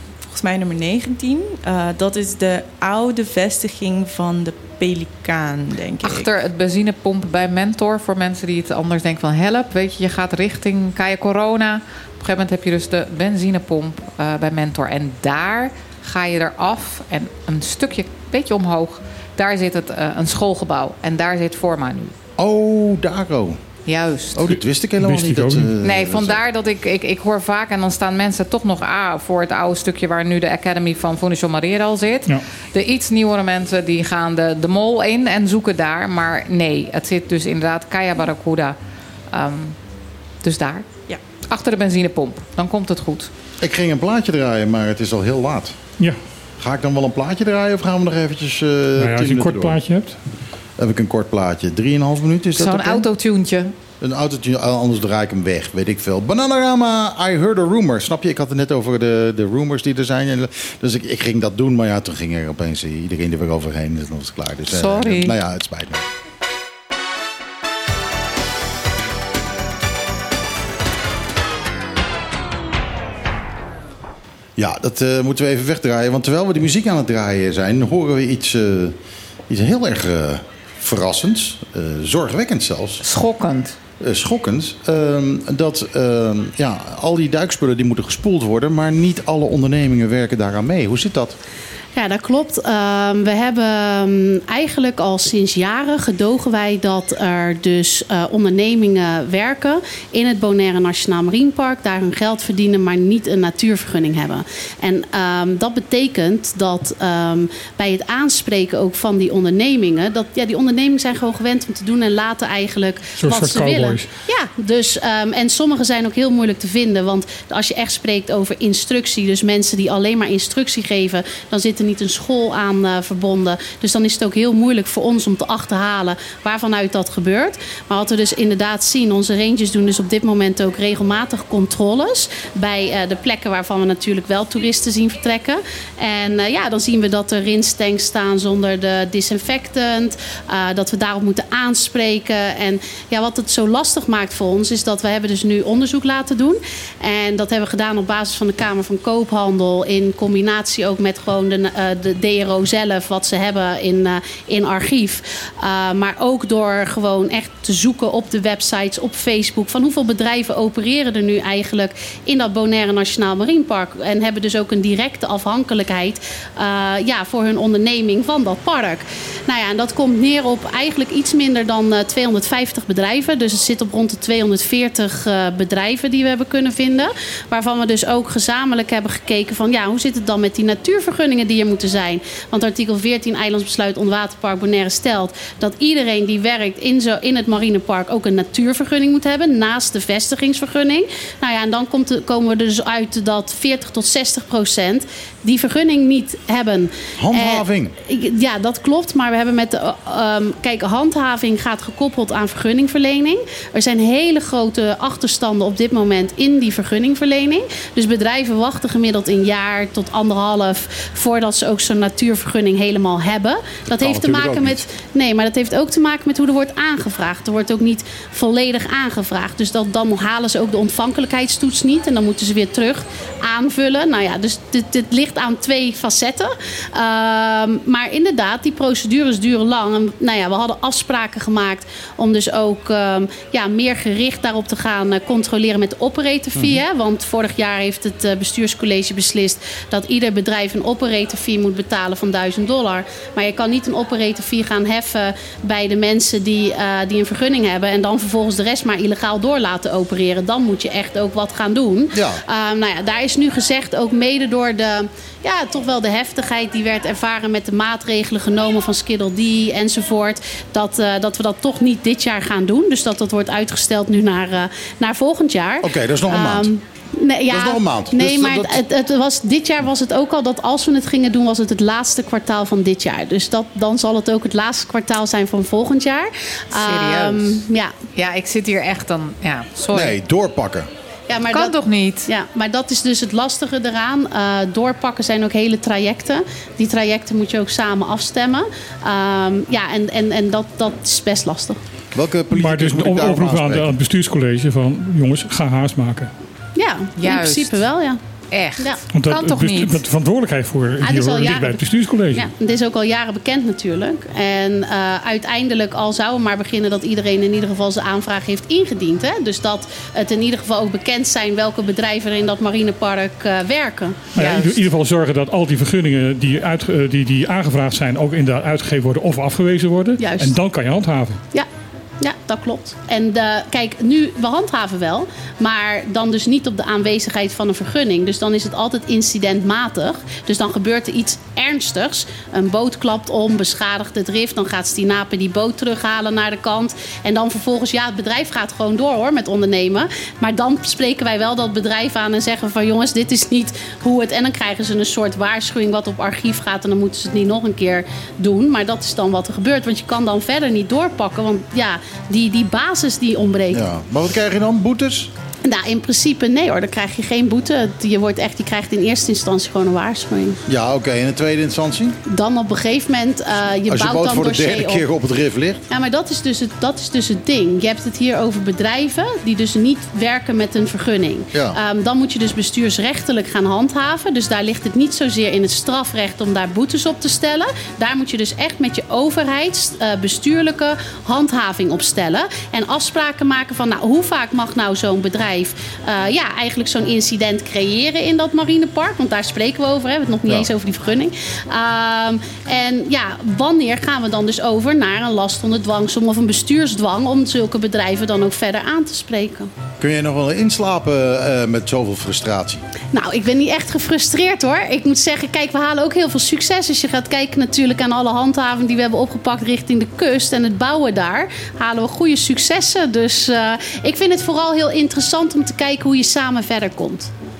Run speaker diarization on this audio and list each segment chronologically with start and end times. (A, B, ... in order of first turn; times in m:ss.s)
0:00.2-0:06.3 A
0:06.0-0:22.1 B
0:22.4-0:23.6 C
0:23.8-0:24.5 B
0:24.3-0:26.4 C
0:25.0-0:25.7 D
0:25.8-0:38.8 B
0:39.3-0:39.8 B
0:40.4-0:40.9 B
0:41.5-0:43.3 B
0:43.6-0:45.8 C
0:46.6-0:49.8 C
0:49.0-0:50.2 D
0:50.8-0:53.1 C
0:52.6-0:53.7 B
0:54.0-1:06.0 C
1:04.7-1:05.4 B
1:14.6-1:19.0 C
1:19.5-1:23.0 C
1:23.0-1:23.8 B
1:24.0-1:31.4 C
1:31.9-4:37.9 E
1:53.2-1:54.1 D
3:17.2-3:17.9 C
3:33.9-3:34.8 C
3:56.5-3:56.8 C
4:12.1-4:12.4 C
4:25.8-4:26.7 C
4:27.5-4:28.8 C
4:36.7-4:37.6 B
4:38.1-4:40.2 B
4:39.9-4:40.9 C
4:41.3-4:41.8 E
4:41.5-4:42.3 B
4:42.3-4:51.8 E
4:52.1-4:53.9 C
4:52.5-4:56.3 D
4:56.8-4:58.2 E
4:57.2-4:57.8 B
4:58.5-5:00.0 B
4:59.1-5:02.5 D
5:01.0-5:14.7 E
5:14.3-5:21.4 D
5:14.4-5:14.7 B
5:20.2-5:20.6 E
5:22.2-5:53.8 E
5:53.7-5:55.3 C
5:55.6-6:00.6 E
6:00.7-6:02.2 C
6:02.2-6:05.0 E
6:03.9-6:05.8 C
6:05.9-6:39.7 E
6:11.5-6:11.8 C
6:40.0-6:42.8 C
6:43.1-6:57.3 E